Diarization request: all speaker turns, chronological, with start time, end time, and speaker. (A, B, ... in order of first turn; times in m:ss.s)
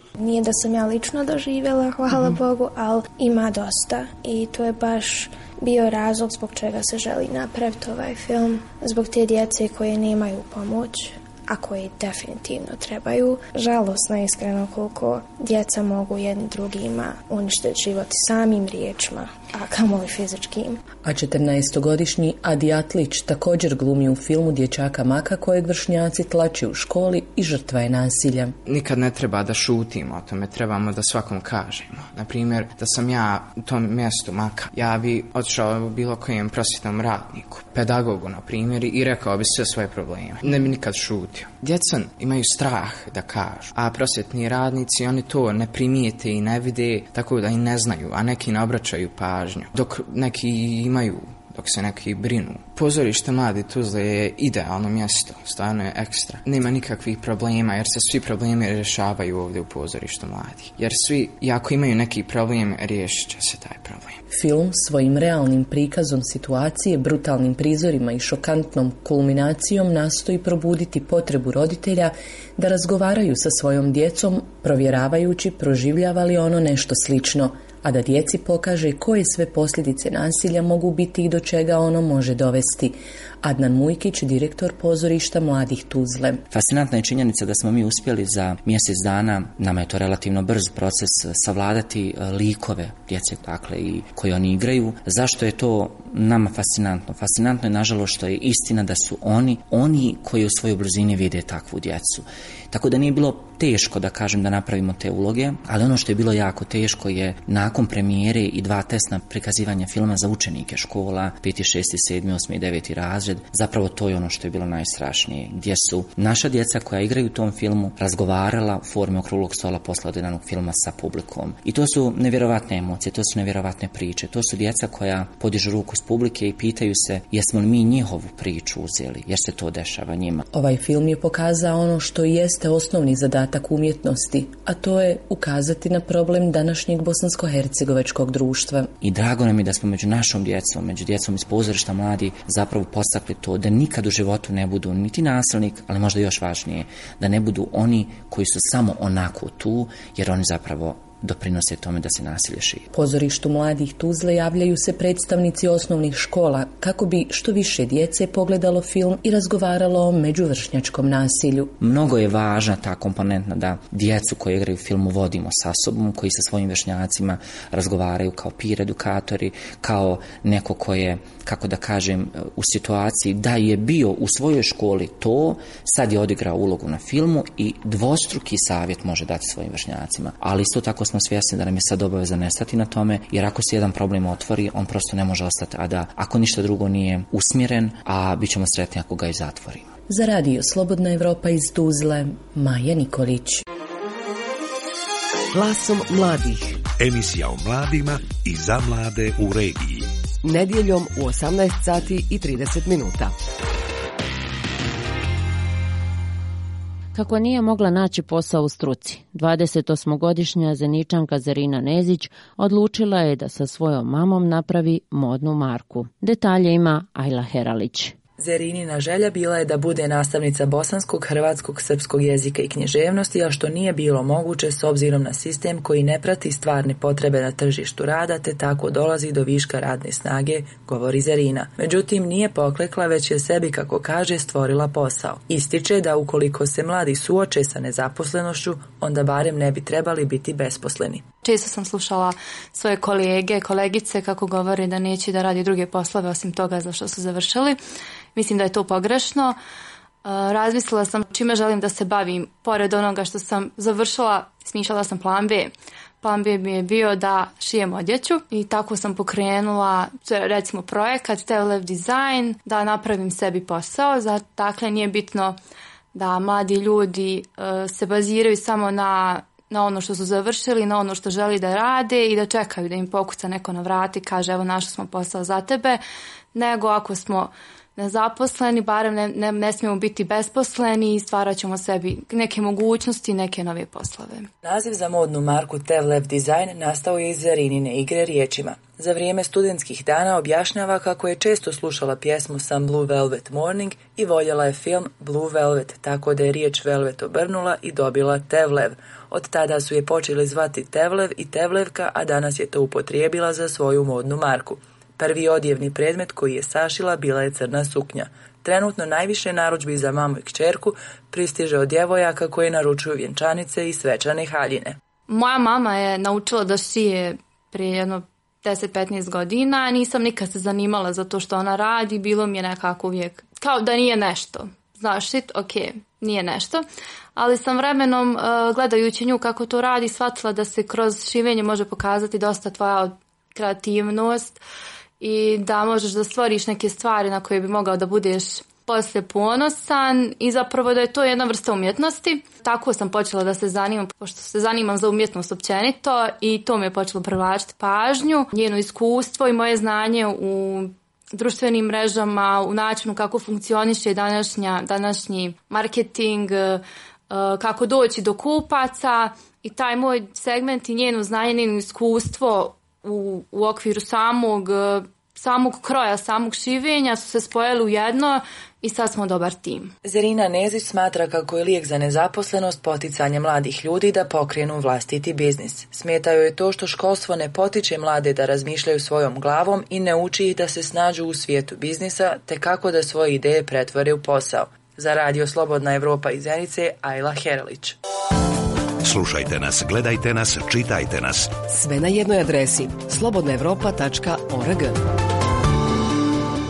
0:00.2-0:20.8 A
0:21.0-0:28.5 B
0:28.6-1:04.2 C
1:04.3-1:26.5 B
1:26.5-2:10.4 D
2:10.5-2:18.9 B
2:19.0-2:32.9 D
2:32.9-2:41.8 B
2:41.8-3:09.9 D
3:10.1-3:13.6 B
3:15.5-3:16.9 E
3:17.0-3:20.0 F
3:20.4-3:23.3 E
3:27.2-3:38.1 G
3:38.4-4:01.3 H
4:01.4-4:07.8 I
4:08.4-4:09.6 I
4:10.2-4:25.6 I
4:26.1-4:36.0 I
4:36.5-4:44.5 I
4:44.6-5:15.0 H
5:15.3-5:26.8 I
5:27.4-5:34.6 I
5:35.2-6:09.9 I
6:10.0-6:28.0 H
6:29.0-6:31.5 F
6:31.7-6:35.0 E